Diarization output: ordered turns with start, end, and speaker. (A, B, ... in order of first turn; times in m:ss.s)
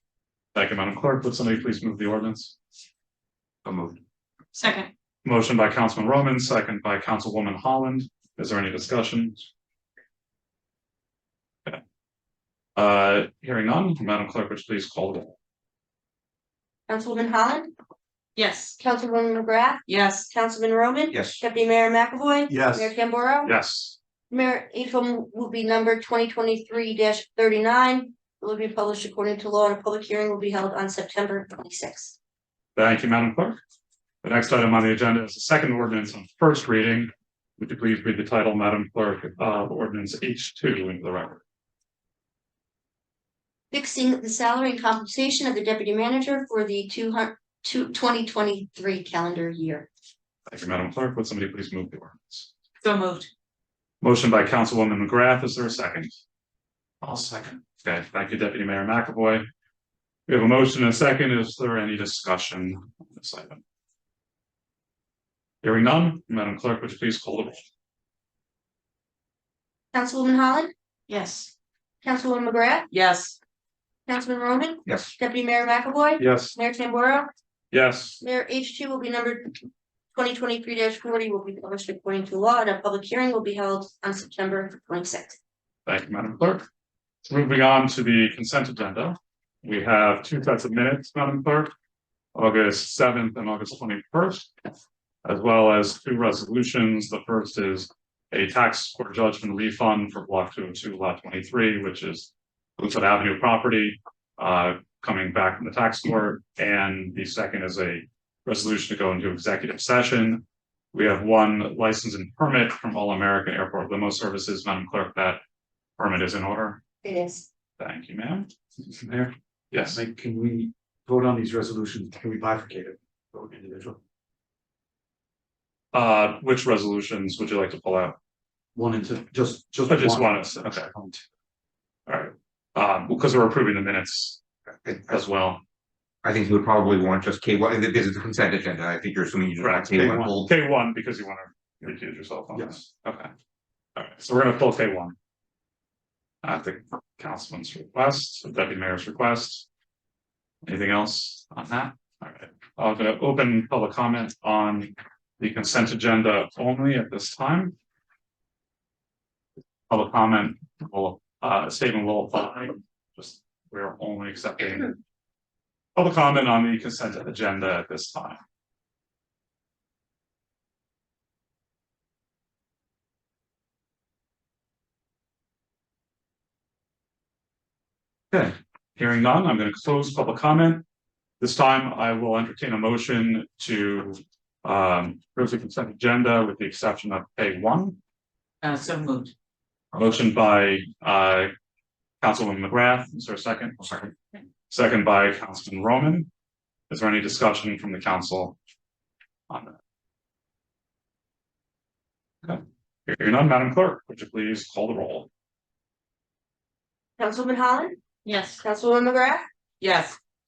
0:00.5-0:02.5 A
0:03.6-0:04.0 B
0:04.6-0:04.9 C
0:05.2-0:09.5 A
0:12.8-0:15.4 A
0:16.9-0:17.7 D
0:18.4-0:18.8 C
0:18.8-0:23.5 D
0:19.8-0:20.3 C
0:21.1-0:21.4 B
0:22.5-0:22.9 E
0:23.4-0:24.0 A
0:24.3-0:32.2 D
0:32.8-0:33.6 A
0:34.2-0:41.4 A
0:43.7-0:49.9 D
0:50.5-0:52.5 A
0:52.8-0:53.3 C
0:54.0-0:56.2 A
0:57.0-0:59.4 A
1:00.3-1:03.6 A
1:05.6-1:07.6 A
1:09.9-1:10.7 D
1:11.1-1:11.5 C
1:12.0-1:12.9 D
1:12.9-1:13.4 C
1:14.1-1:17.3 D
1:14.9-1:15.1 B
1:16.2-1:16.5 E
1:17.7-1:18.2 A
1:18.2-1:19.6 D
1:20.1-1:25.4 D
1:25.9-1:26.7 A
1:27.2-1:31.7 A
1:32.3-1:34.5 A
1:35.2-1:55.4 A
1:56.0-1:56.8 A
1:57.0-1:57.5 D
1:57.8-1:58.5 A
1:58.9-2:04.0 E
1:59.7-2:00.0 A
2:05.9-2:08.2 A
2:08.8-2:11.2 E
2:09.9-2:10.9 A
2:12.1-2:14.4 A
2:14.8-2:15.2 B
2:15.1-2:15.6 A
2:16.2-2:20.5 B
2:19.6-2:23.3 A
2:22.5-2:22.8 E
2:24.0-2:25.2 A
2:26.4-2:29.7 A
2:30.6-2:37.8 A
2:39.9-2:45.0 A
2:46.0-2:48.4 A
2:58.3-3:00.8 A
3:01.4-3:08.0 A
3:08.6-3:09.3 C
3:09.9-3:11.5 A
3:12.2-3:14.0 A
3:13.8-3:14.1 B
3:14.7-3:16.3 A
3:16.9-3:18.6 A
3:19.5-3:19.8 A
3:22.4-3:25.3 A
3:27.2-3:28.0 D
3:28.2-3:28.6 C
3:28.6-3:29.4 D
3:29.8-3:30.2 C